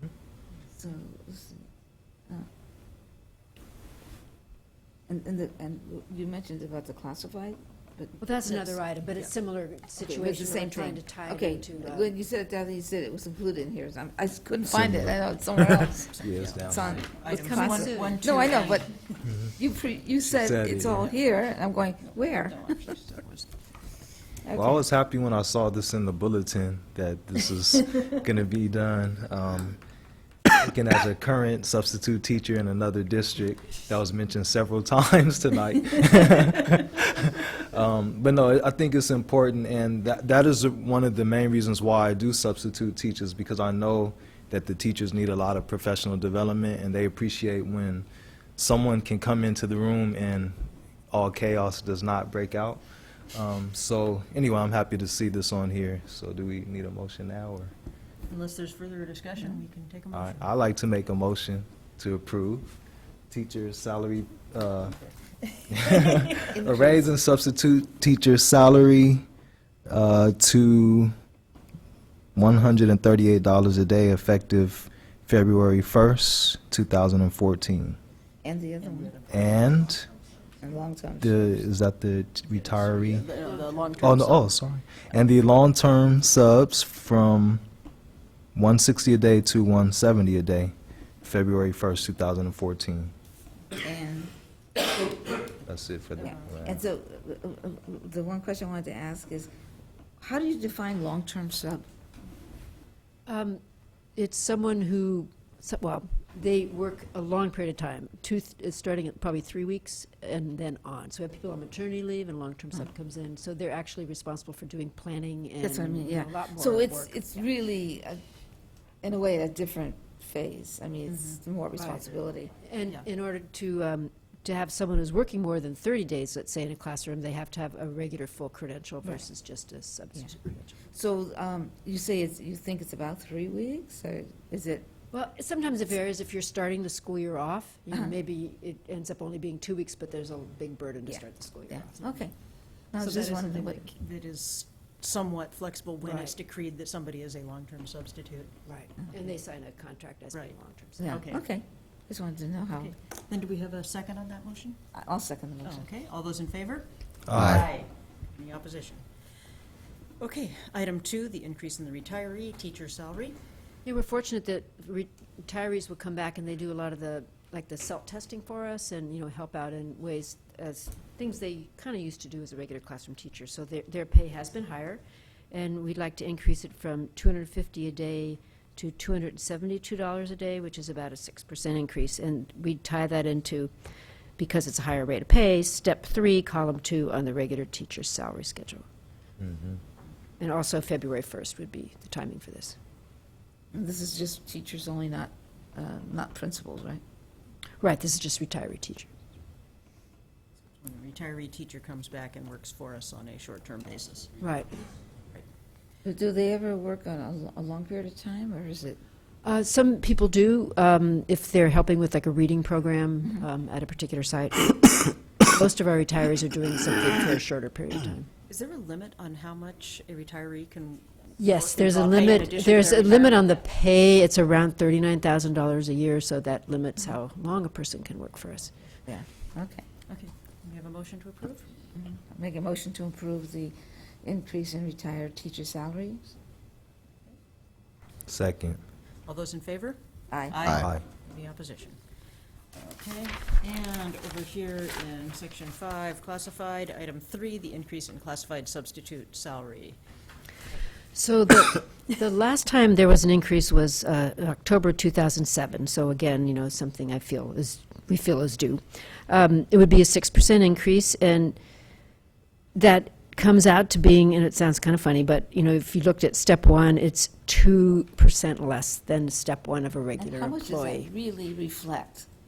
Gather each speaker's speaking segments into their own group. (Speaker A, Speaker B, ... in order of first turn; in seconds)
Speaker A: 0.8-1.6, 5.1-8.8, 10.0-18.9, 19.6-22.8, 24.4-24.8, 66.5-67.1, 78.4-79.2, 80.6-81.6, 93.7-94.3, 96.2-99.5, 100.2-101.8, 115.6-118.2, 119.0-122.5, 130.9-134.9, 141.1-142.3, 142.9-143.8, 151.0-152.9, 154.9-155.9, 193.7-197.0, 206.0-209.0, 229.1-229.8, 231.9-236.2, 240.3-240.7, 270.2-272.3
Speaker B: 8.2-12.2, 17.3-18.2, 103.3-103.6, 104.2-117.5, 121.8-130.8, 135.1-142.3, 146.0-146.3, 148.7-151.1, 163.8-183.7, 184.4-188.9, 190.4-192.8, 197.8-199.1, 204.4-204.7, 209.4-218.3, 221.4-228.7, 251.1-261.6, 262.8-271.1
Speaker C: 14.7-17.1, 20.2-21.1, 24.5-29.8, 30.5-52.8, 53.3-57.7, 60.1-62.8, 63.3-65.0, 65.7-69.2, 69.9-71.1, 72.4-78.0, 79.3-80.1, 81.2-83.3, 84.0-87.6, 88.5-93.1, 95.7-96.8, 157.3-157.7, 189.4-189.8, 238.3-238.8, 240.7-241.0
Speaker D: 15.9-19.2, 22.0-23.6, 58.3-60.5, 66.0-66.3, 78.8-79.7, 82.7-84.6, 143.0-148.6, 151.1-151.4, 152.8-154.8, 155.7-159.1, 160.2-163.4, 200.8-204.4, 218.5-223.6, 230.1-231.8, 239.3-240.0, 240.5-242.0, 242.7-250.0